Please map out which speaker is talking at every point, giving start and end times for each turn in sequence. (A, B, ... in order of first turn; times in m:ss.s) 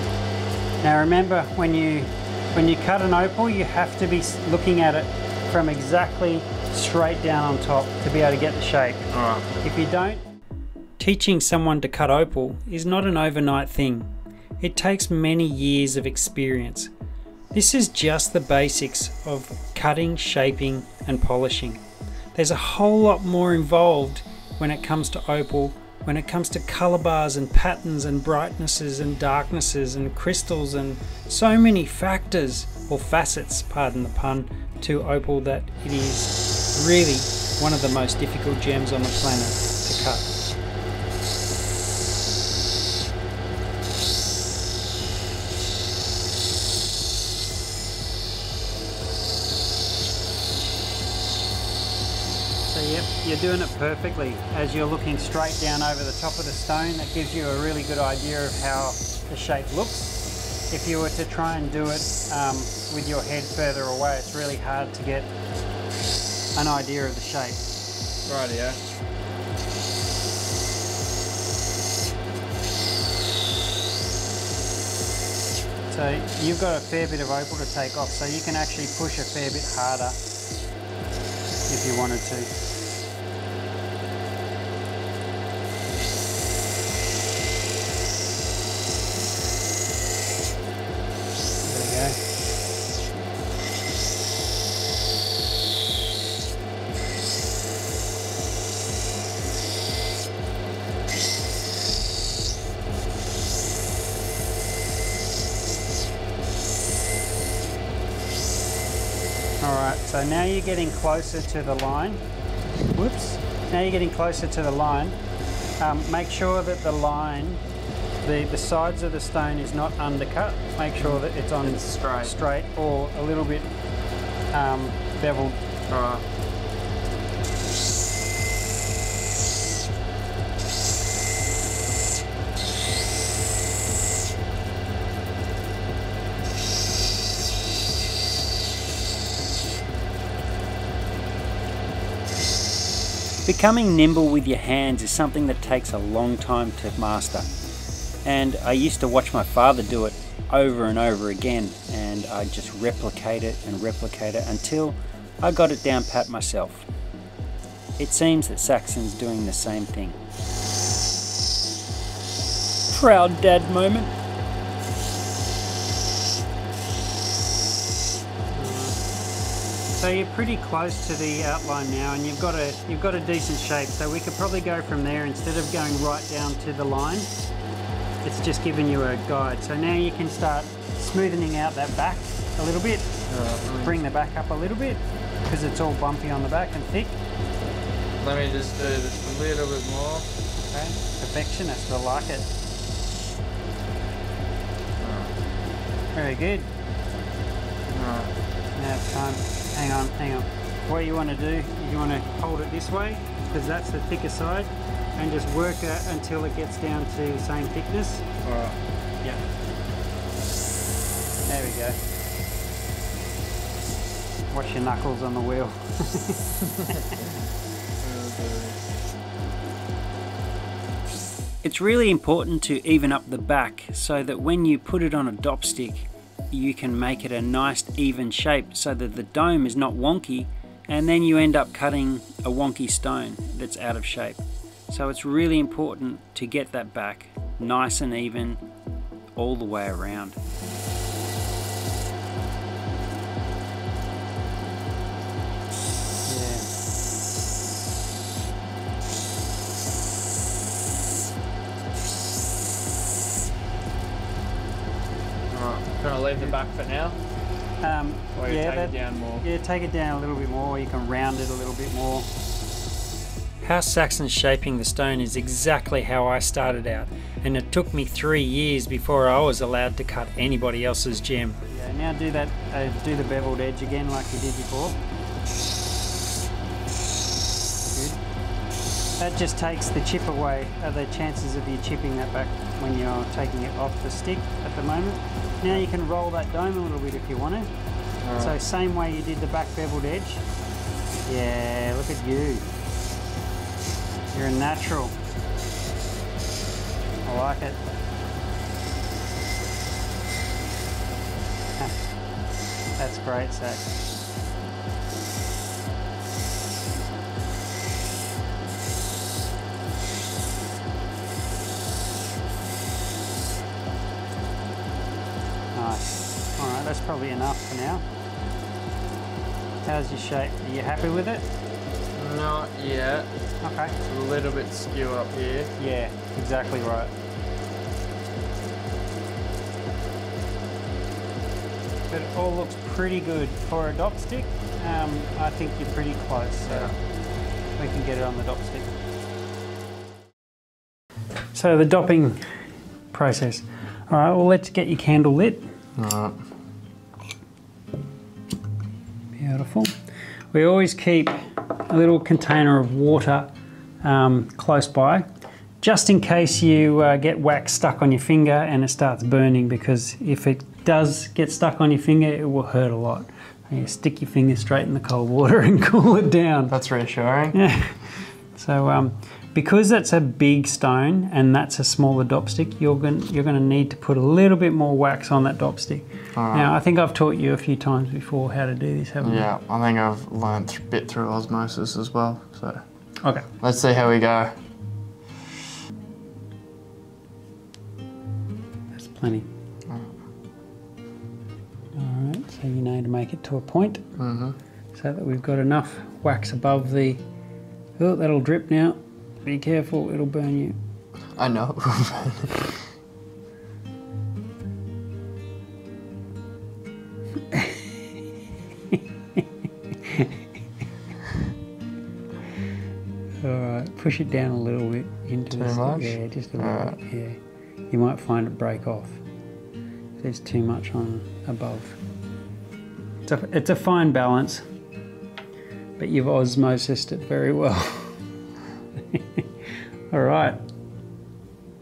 0:00.8-0:10.2 A
0:09.1-0:09.4 B
0:11.0-0:16.9 A
0:17.5-0:21.8 A
0:22.3-0:40.3 A
0:52.6-1:00.2 A
1:00.7-1:05.3 A
1:06.5-1:07.6 A
1:08.3-1:08.8 B
1:15.9-1:20.2 A
1:21.7-1:22.5 A
1:31.6-1:32.2 A
1:49.6-1:52.2 A
1:52.9-1:55.2 A
1:55.8-1:57.6 A
1:58.2-2:03.7 A
2:01.0-2:02.4 B
2:04.5-2:05.6 A
2:05.9-2:06.2 B
2:23.4-2:27.5 C
2:28.2-2:36.9 C
2:38.0-2:40.2 C
2:42.9-2:44.1 C
2:48.5-2:49.0 A
2:50.0-2:57.3 A
2:58.2-3:07.2 A
3:03.3-3:04.0 B
3:08.2-3:10.3 B
3:10.6-3:12.5 A
3:15.0-3:15.3 B
3:16.1-3:16.7 A
3:17.9-3:18.3 B
3:18.7-3:28.3 A
3:28.4-3:28.8 B
3:31.4-3:32.0 A
3:34.5-3:37.2 A
3:38.0-3:38.8 B
3:41.6-3:54.4 C
3:54.9-3:58.6 C
3:59.4-4:00.4 C
4:06.3-4:06.6 A
4:15.5-4:17.1 B
4:17.8-4:22.3 A
4:18.4-4:19.4 B
4:23.6-4:35.0 A
4:29.9-4:31.4 C
4:39.2-4:47.7 A
4:48.2-4:48.6 B
4:48.3-4:50.4 A
4:51.2-4:52.6 A
4:54.3-4:55.2 A
4:57.2-4:57.8 A
5:03.0-5:04.0 A
5:15.7-5:18.0 A
5:19.8-5:21.5 A
5:22.2-5:23.3 B
5:23.6-5:24.0 A
5:24.0-5:25.7 B
5:25.8-5:27.1 A
5:32.1-5:36.9 A
5:36.7-5:36.9 B
5:37.8-5:38.9 A
5:41.5-5:42.4 A
5:43.1-5:45.7 A
5:46.0-5:46.4 B
5:49.4-5:49.9 A
5:50.5-5:55.3 A
5:55.8-6:06.7 A
6:06.7-6:07.6 B
6:07.5-6:08.0 A
6:08.5-6:19.4 A
6:16.3-6:16.7 B
6:19.2-6:22.8 B
6:23.6-6:24.5 B
6:28.9-6:29.5 A
6:29.9-6:30.1 B
6:31.9-6:34.0 A
6:34.2-6:34.6 B
6:34.9-6:37.2 A
6:38.0-6:40.8 A
6:41.3-6:42.8 B
6:47.5-6:47.8 A
6:50.0-6:50.3 A
6:53.4-6:57.4 A
6:55.5-6:57.0 B
6:57.9-6:59.2 A
7:00.2-7:02.0 A
7:03.2-7:04.6 A
7:06.0-7:08.2 A
7:09.1-7:09.4 A
7:10.1-7:10.6 A